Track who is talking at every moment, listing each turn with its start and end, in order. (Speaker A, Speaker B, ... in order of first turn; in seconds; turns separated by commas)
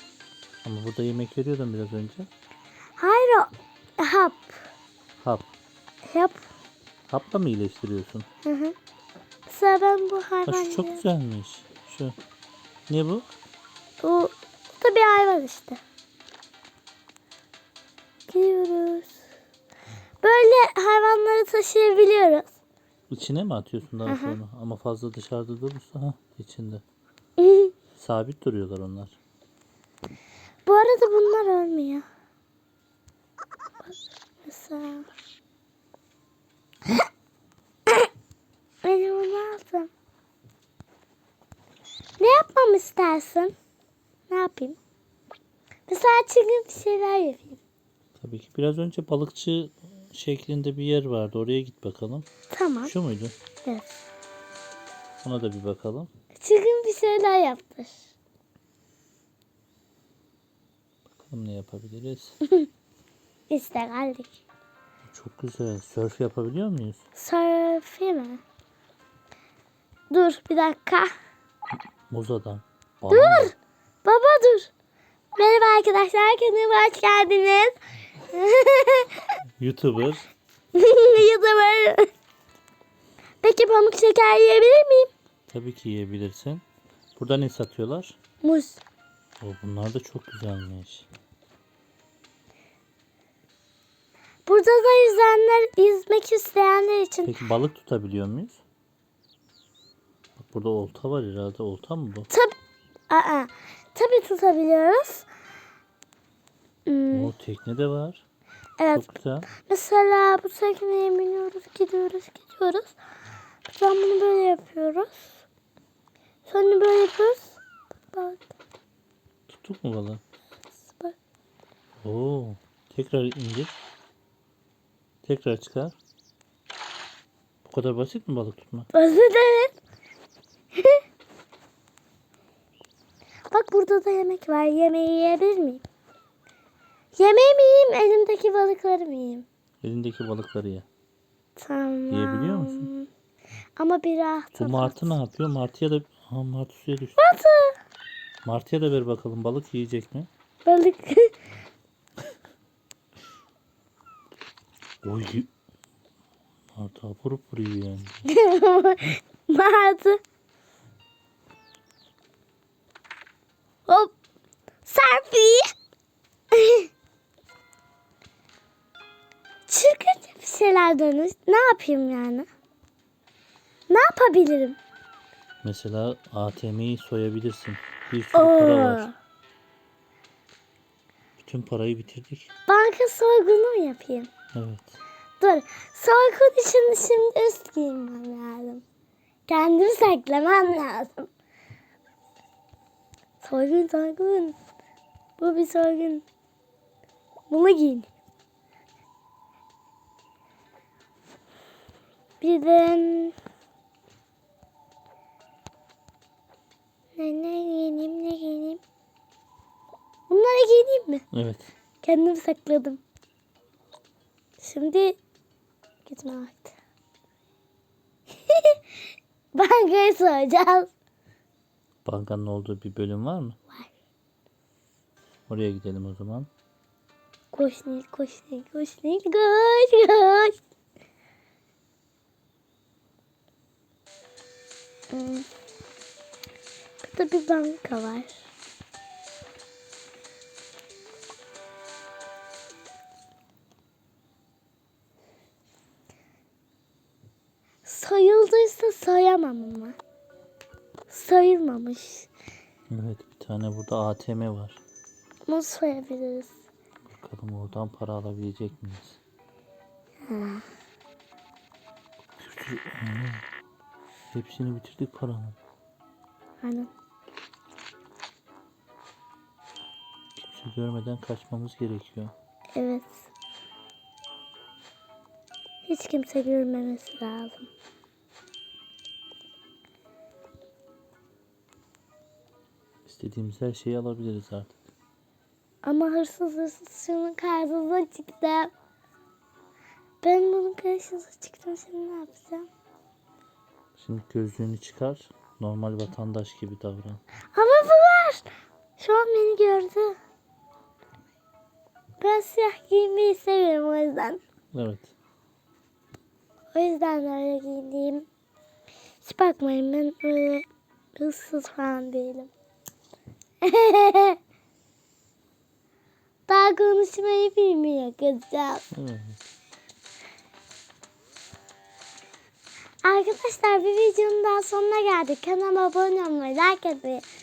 Speaker A: 0.6-2.3, Speaker B: 3.0-4.6, Speaker A: 5.2-5.5, Speaker B: 6.1-6.4, Speaker A: 7.1-8.2, Speaker B: 8.4-8.7, Speaker B: 9.5-11.0, Speaker A: 10.5-12.2, Speaker A: 12.9-13.3, Speaker B: 14.0-15.8, Speaker B: 18.3-19.1, Speaker B: 20.2-22.5, Speaker A: 23.1-26.8, Speaker B: 24.0-24.4, Speaker B: 27.4-27.7, Speaker A: 27.9-29.1, Speaker B: 30.6-32.0, Speaker B: 33.8-35.1, Speaker B: 38.8-39.9, Speaker B: 42.2-43.5, Speaker B: 44.3-44.8, Speaker B: 45.9-47.6, Speaker A: 48.1-52.3, Speaker B: 52.5-52.9, Speaker A: 52.8-53.3, Speaker A: 55.2-56.1, Speaker B: 56.4-58.1, Speaker A: 61.1-62.4, Speaker B: 63.5-64.3, Speaker A: 65.0-67.0, Speaker B: 67.2-68.4, Speaker B: 70.1-71.1, Speaker A: 72.1-73.5, Speaker B: 73.1-74.7, Speaker B: 75.3-79.1, Speaker A: 79.6-80.3, Speaker B: 80.7-82.1, Speaker B: 83.4-85.1, Speaker A: 85.5-86.6, Speaker A: 87.2-88.2, Speaker B: 88.4-88.8, Speaker A: 89.4-91.1, Speaker B: 94.5-97.3, Speaker A: 97.2-98.6, Speaker A: 100.4-102.3, Speaker B: 102.3-102.5, Speaker B: 103.1-105.2, Speaker B: 106.8-107.3, Speaker A: 107.1-108.2, Speaker B: 108.8-113.0, Speaker A: 108.9-109.5, Speaker B: 113.7-115.3, Speaker B: 116.5-117.6, Speaker B: 118.1-118.5, Speaker A: 119.5-120.2, Speaker B: 120.8-121.1, Speaker A: 122.0-123.7, Speaker A: 125.2-126.0, Speaker A: 127.6-128.9, Speaker B: 128.9-129.8, Speaker B: 133.5-135.8, Speaker B: 137.2-139.4, Speaker A: 139.8-140.8, Speaker B: 141.6-143.1, Speaker A: 142.1-142.9, Speaker B: 143.8-145.2, Speaker A: 144.5-147.2, Speaker B: 147.2-147.7, Speaker A: 148.4-150.3, Speaker B: 150.7-151.3, Speaker A: 155.0-155.5, Speaker A: 156.7-158.2, Speaker B: 158.2-160.2, Speaker B: 163.9-164.1, Speaker B: 164.8-165.7, Speaker B: 166.5-166.9, Speaker B: 169.7-172.5, Speaker B: 173.9-174.8, Speaker A: 175.6-179.1, Speaker B: 178.3-179.1, Speaker A: 181.4-182.5, Speaker B: 182.7-184.3, Speaker A: 184.5-184.9, Speaker B: 185.4-188.8, Speaker B: 189.5-191.3, Speaker B: 193.4-194.6, Speaker B: 195.4-196.2, Speaker B: 197.5-198.1, Speaker B: 202.4-203.3, Speaker B: 207.2-208.8, Speaker B: 210.3-211.2, Speaker A: 211.3-211.7, Speaker B: 212.0-213.0, Speaker B: 214.6-215.2, Speaker B: 216.0-216.7, Speaker B: 218.5-218.8, Speaker B: 219.5-220.9, Speaker A: 222.0-223.6, Speaker A: 225.5-226.5, Speaker B: 227.5-230.5, Speaker B: 235.1-235.5, Speaker B: 237.0-238.4, Speaker B: 247.8-249.9, Speaker B: 251.1-252.3, Speaker A: 252.9-254.8, Speaker B: 255.5-256.5, Speaker A: 257.1-259.2, Speaker B: 260.2-260.6, Speaker A: 262.4-263.4, Speaker A: 264.3-265.6, Speaker B: 266.6-266.9, Speaker A: 270.4-272.3, Speaker B: 272.7-273.2, Speaker B: 275.8-277.7, Speaker A: 283.0-284.8, Speaker B: 285.8-288.7, Speaker B: 290.2-292.7, Speaker A: 294.0-297.2, Speaker B: 297.5-300.1, Speaker B: 302.2-304.4, Speaker A: 304.7-305.1, Speaker B: 306.7-308.2, Speaker B: 309.2-310.6, Speaker B: 311.1-312.5, Speaker B: 313.6-314.4, Speaker B: 316.5-318.8, Speaker A: 318.9-319.4, Speaker B: 323.0-327.2